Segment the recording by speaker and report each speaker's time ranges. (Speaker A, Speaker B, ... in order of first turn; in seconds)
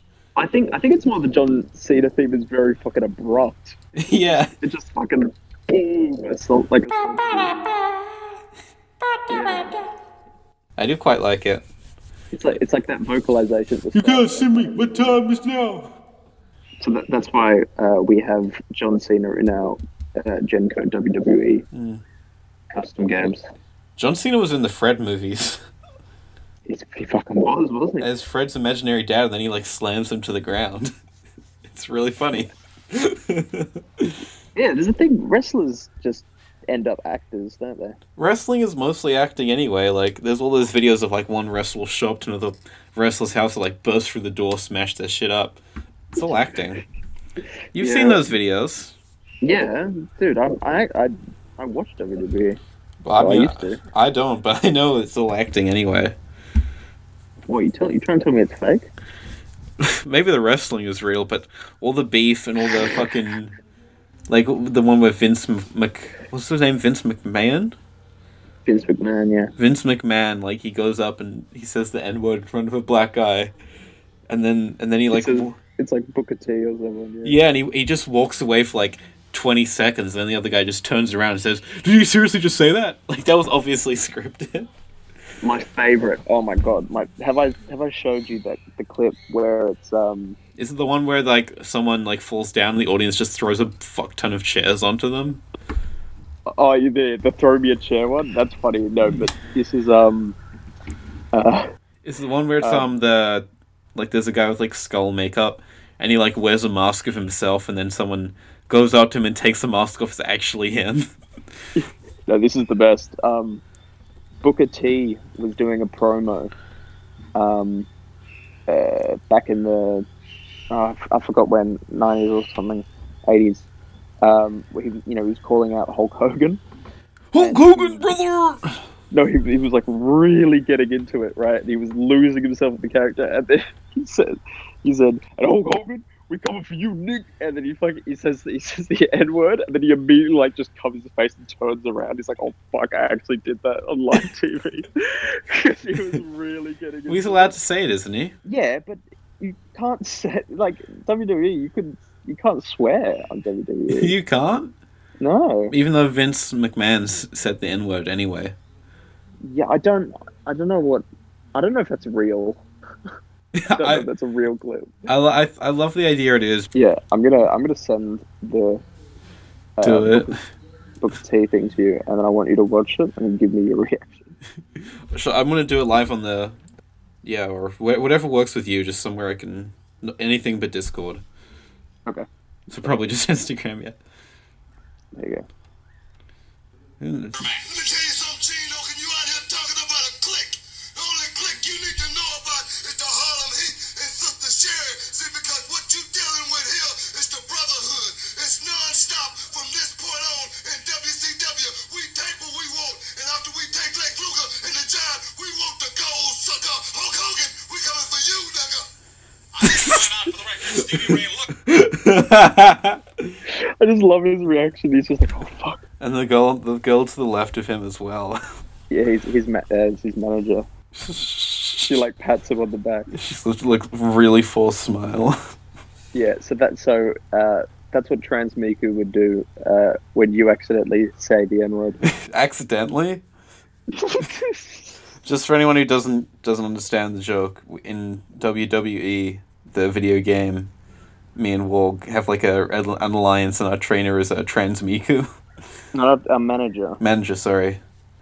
Speaker A: 0.4-7.6, 9.3-9.8, 12.3-14.9, 16.8-21.7, 22.7-23.5, 26.7-28.1, 34.6-38.0, 46.2-46.6, 47.8-48.2, 49.4-52.6, 53.2-53.8, 57.5-58.9, 68.7-69.5, 75.1-77.4, 85.4-90.4, 96.5-100.4, 101.3-101.7, 102.6-102.9, 111.8-113.6, 114.4-116.5, 117.3-117.9, 118.7-120.1, 120.7-123.7, 124.2-126.6, 127.4-128.1, 129.1-147.6, 148.4-154.1, 155.2-155.7, 159.4-161.0, 161.6-162.6, 163.7-165.1, 166.7-168.8, 169.8-170.4, 171.0-174.3, 185.2-185.5, 213.5-215.8, 218.9-220.7, 221.8-223.1, 226.1-232.0, 233.9-234.9, 245.9-247.0
Speaker B: 4.0-4.5, 9.3-9.6, 10.8-11.7, 13.9-15.9, 21.7-22.0, 24.0-25.6, 28.0-30.9, 31.7-34.2, 38.2-45.6, 46.1-46.8, 47.7-49.0, 53.0-56.2, 59.8-63.5, 64.3-67.8, 69.6-73.5, 74.3-75.6, 77.2-84.7, 90.6-95.4, 102.0-111.1, 127.3-128.8, 147.1-148.3, 153.9-154.7, 155.7-158.6, 163.5-164.1, 165.1-166.7, 169.8-170.4, 174.8-176.6, 177.2-181.2, 182.7-184.0, 187.0-187.5, 209.6-213.3, 216.0-218.4, 221.0-221.9, 223.1-225.4, 232.0-233.2, 235.2-240.7, 241.4-245.3, 247.0-247.8
Speaker C: 187.4-208.9, 209.6-211.5